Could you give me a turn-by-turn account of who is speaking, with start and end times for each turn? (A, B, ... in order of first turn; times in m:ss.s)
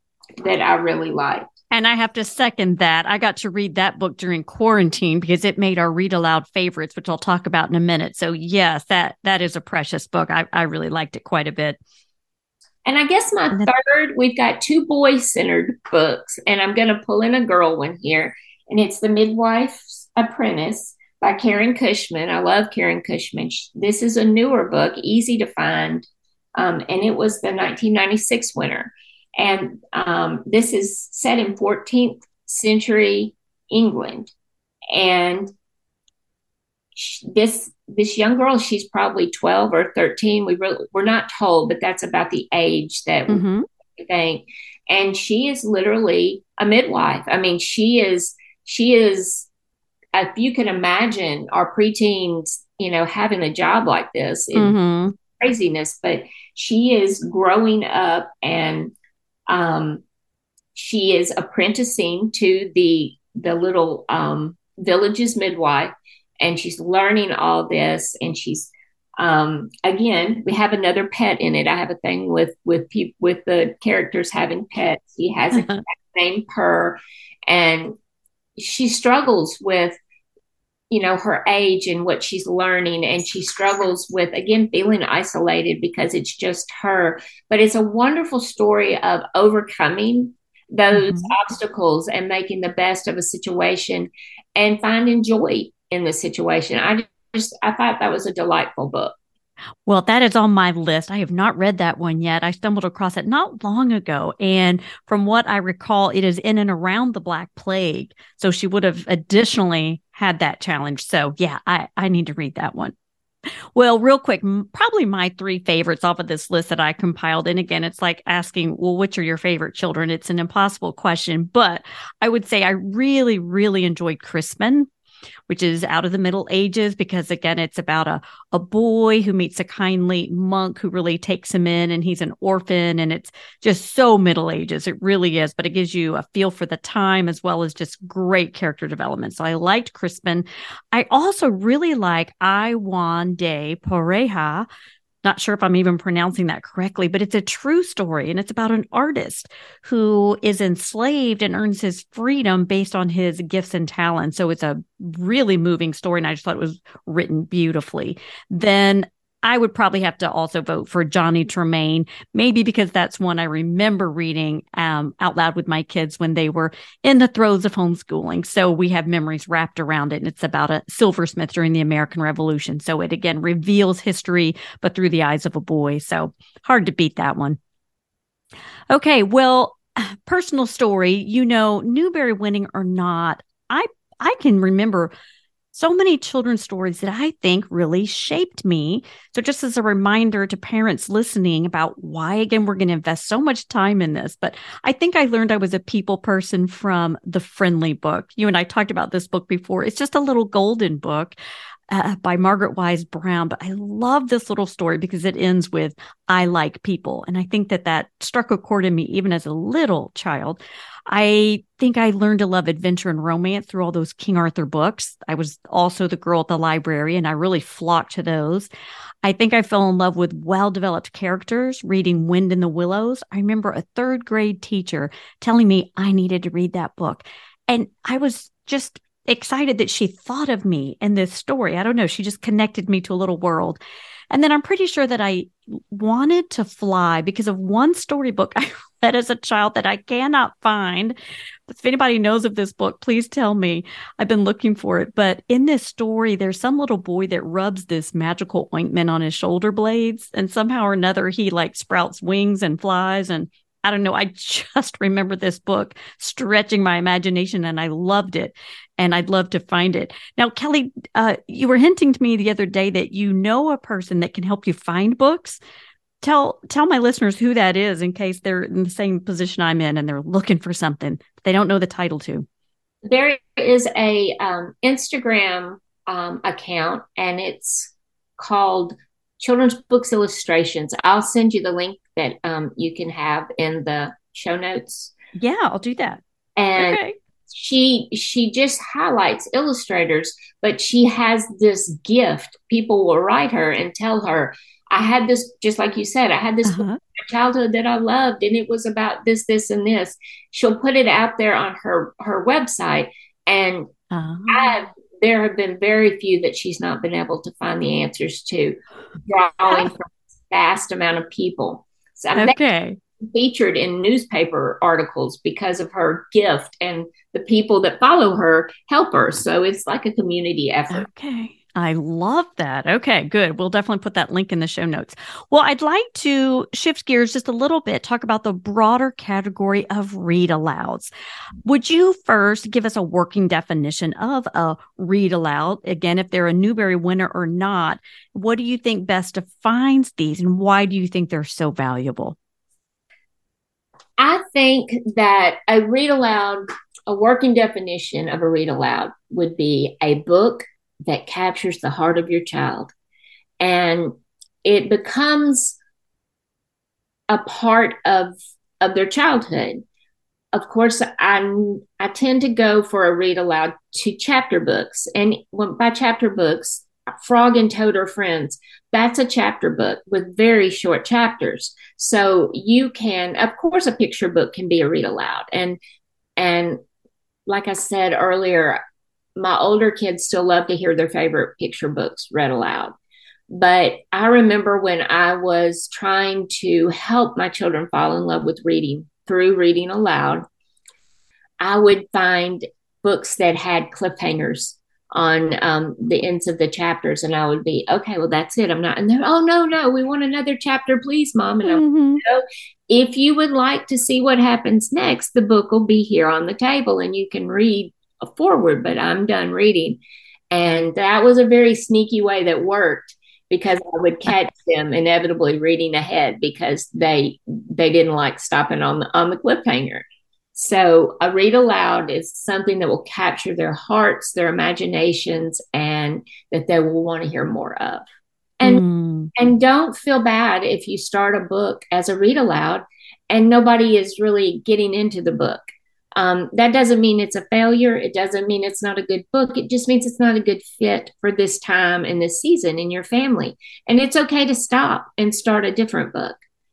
0:00.4-0:01.4 A
0:01.7-0:11.8 B
0:12.8-0:26.0 A
0:26.6-0:34.3 A
0:34.9-0:35.5 A
0:37.0-0:43.4 A
0:43.3-0:43.6 B
0:44.0-0:49.5 A
0:50.1-0:54.8 A
0:54.5-0:55.1 B
0:55.4-0:58.9 A
0:59.5-1:00.0 A
1:00.7-1:17.9 A
1:18.6-1:20.0 A
1:20.9-1:39.1 A
1:30.9-1:31.3 B
1:39.8-1:52.9 B
1:53.7-2:04.9 B
2:05.5-2:24.7 B
2:25.2-2:57.6 B
2:58.9-3:05.1 B
3:05.7-3:21.3 B
3:21.9-3:38.7 B
3:39.2-4:01.1 B
4:01.7-4:25.6 B
4:26.2-4:32.4 B
4:33.0-4:45.1 A
4:45.4-4:46.2 B
4:46.6-5:03.9 A
4:46.8-4:47.2 B
4:56.6-4:57.0 B
5:04.1-5:04.7 B
5:04.5-5:12.6 A
5:12.3-5:13.0 B
5:13.2-5:21.0 A
5:20.9-5:31.1 B
5:31.6-5:42.4 B
5:44.2-5:52.9 A
5:53.6-5:54.1 A
5:54.6-5:55.8 A
5:57.3-5:59.8 A
6:00.5-6:15.8 A
6:16.4-6:16.8 A
6:17.5-6:18.8 A
6:19.4-6:22.9 A
6:23.5-6:30.4 A
6:31.6-7:00.0 A
6:41.6-6:42.2 B
7:00.5-7:08.0 A
7:08.6-7:09.3 B
7:09.4-7:15.6 A
7:16.2-7:26.4 A